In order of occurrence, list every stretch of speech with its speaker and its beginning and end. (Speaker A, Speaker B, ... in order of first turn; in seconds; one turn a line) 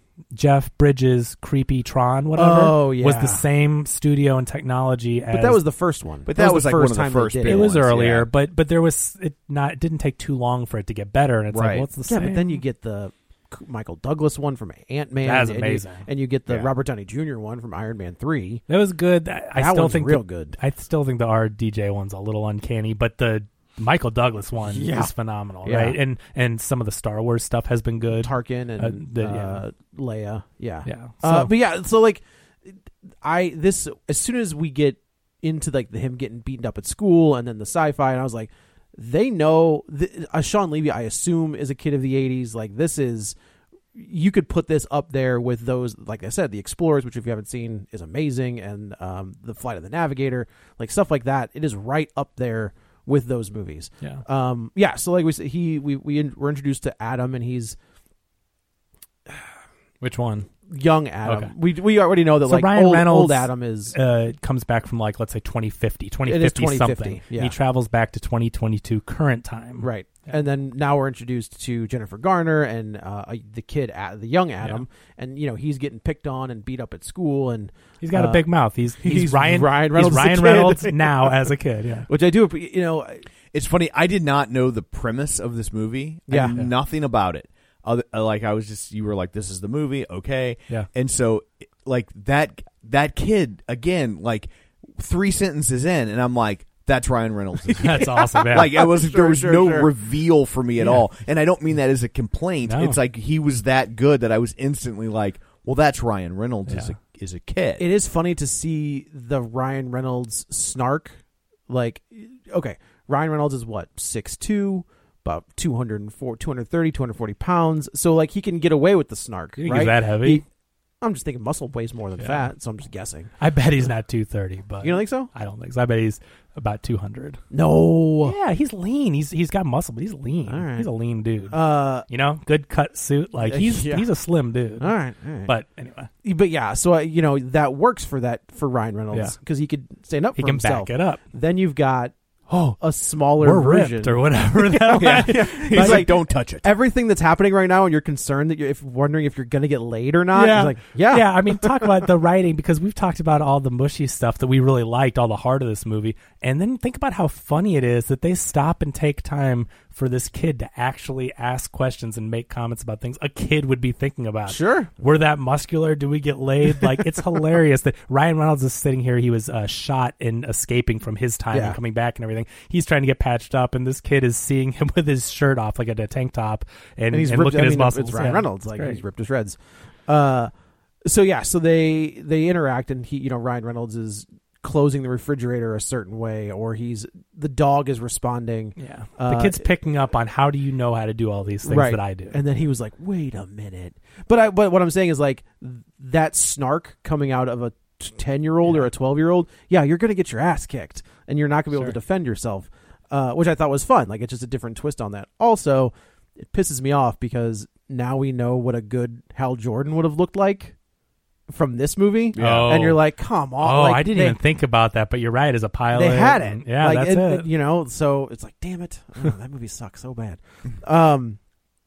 Speaker A: 0.3-5.6
Speaker B: 2.4-3.5
Speaker B: 5.3-7.7
Speaker C: 6.3-8.3
Speaker A: 7.5-12.6
Speaker C: 11.5-11.9
Speaker B: 12.1-18.6
Speaker A: 15.2-16.1
Speaker A: 18.7-29.6
Speaker B: 19.6-20.6
Speaker B: 24.7-25.1
Speaker B: 25.6-26.0
Speaker B: 28.1-43.4
Speaker A: 30.9-31.5
Speaker B: 44.0-57.8
Speaker A: 60.0-60.5
Speaker B: 60.7-64.0
Speaker A: 61.3-61.5
Speaker A: 62.5-70.3
Speaker B: 66.3-67.5
Speaker B: 69.8-78.5
Speaker A: 78.0-82.1
Speaker B: 79.0-81.5
Speaker B: 82.1-83.3
Speaker C: 83.5-107.9
Speaker B: 86.3-86.6
Speaker A: 86.5-86.7
Speaker A: 97.7-98.8
Speaker B: 98.4-99.9
Speaker A: 100.8-101.0
Speaker A: 102.7-103.0
Speaker A: 106.7-106.9
Speaker B: 107.8-111.2
Speaker B: 111.7-120.5
Speaker A: 119.6-120.4
Speaker B: 121.0-123.3
Speaker A: 122.2-122.5
Speaker A: 123.4-127.4
Speaker B: 124.8-125.3
Speaker B: 127.5-128.3
Speaker A: 128.2-131.6
Speaker B: 130.5-130.9
Speaker B: 131.5-132.1
Speaker A: 132.1-134.9
Speaker B: 133.4-134.1
Speaker B: 134.8-135.5
Speaker A: 135.4-136.1
Speaker B: 136.2-142.1
Speaker A: 140.4-141.2
Speaker A: 142.5-142.8
Speaker B: 142.8-152.1
Speaker A: 143.4-146.1
Speaker C: 144.9-146.7
Speaker A: 150.3-179.0
Speaker B: 164.5-164.9
Speaker B: 171.5-171.8
Speaker B: 177.1-180.5
Speaker B: 181.1-189.7
Speaker A: 188.8-192.4
Speaker B: 191.6-210.7
Speaker B: 211.5-214.4
Speaker C: 212.3-212.8
Speaker A: 212.4-213.0
Speaker A: 213.6-217.5
Speaker B: 215.9-221.4